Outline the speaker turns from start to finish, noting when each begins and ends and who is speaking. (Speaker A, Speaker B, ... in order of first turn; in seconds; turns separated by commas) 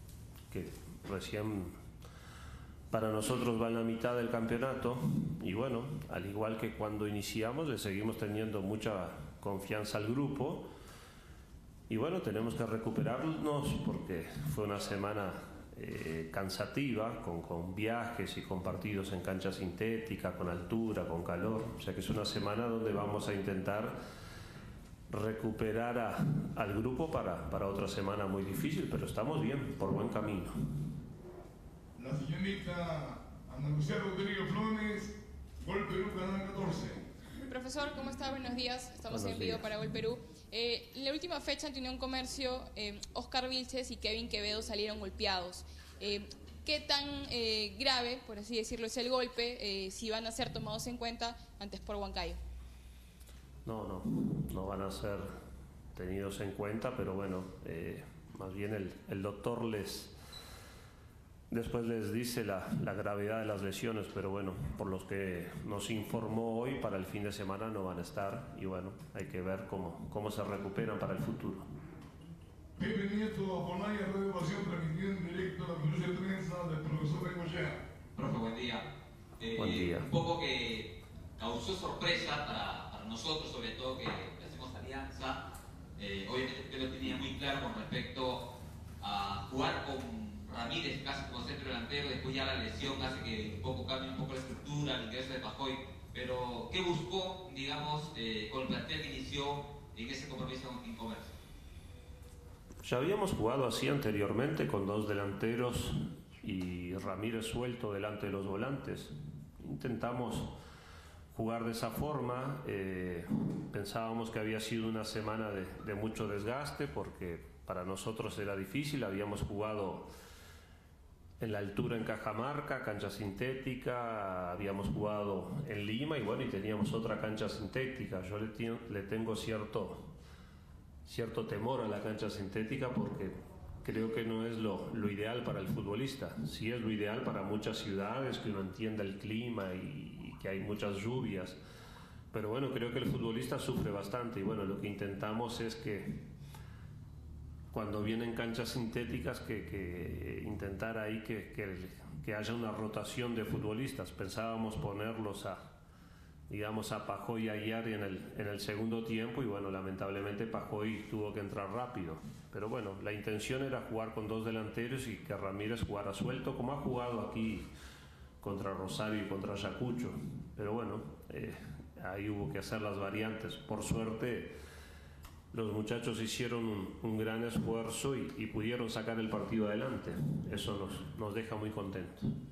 Speaker A: 0.5-1.7, Speaker A: 2.9-10.7, Speaker A: 11.9-23.9, Speaker A: 25.1-30.6, Speaker B: 31.9-37.0, Speaker C: 37.4-52.4, Speaker A: 39.1-39.7, Speaker A: 53.6-55.3, Speaker A: 55.9-60.1, Speaker A: 61.5-71.7, Speaker B: 72.8-77.8, Speaker D: 78.1-78.8, Speaker D: 79.4-85.4, Speaker A: 79.6-80.1, Speaker D: 86.0-88.4, Speaker D: 89.0-101.3, Speaker A: 102.8-110.5, Speaker A: 111.3-120.1, Speaker A: 121.4-130.1, Speaker A: 131.1-141.6, Speaker A: 142.3-146.2, Speaker A: 147.7-155.7, Speaker A: 156.5-167.7, Speaker A: 168.4-174.5, Speaker A: 175.5-182.3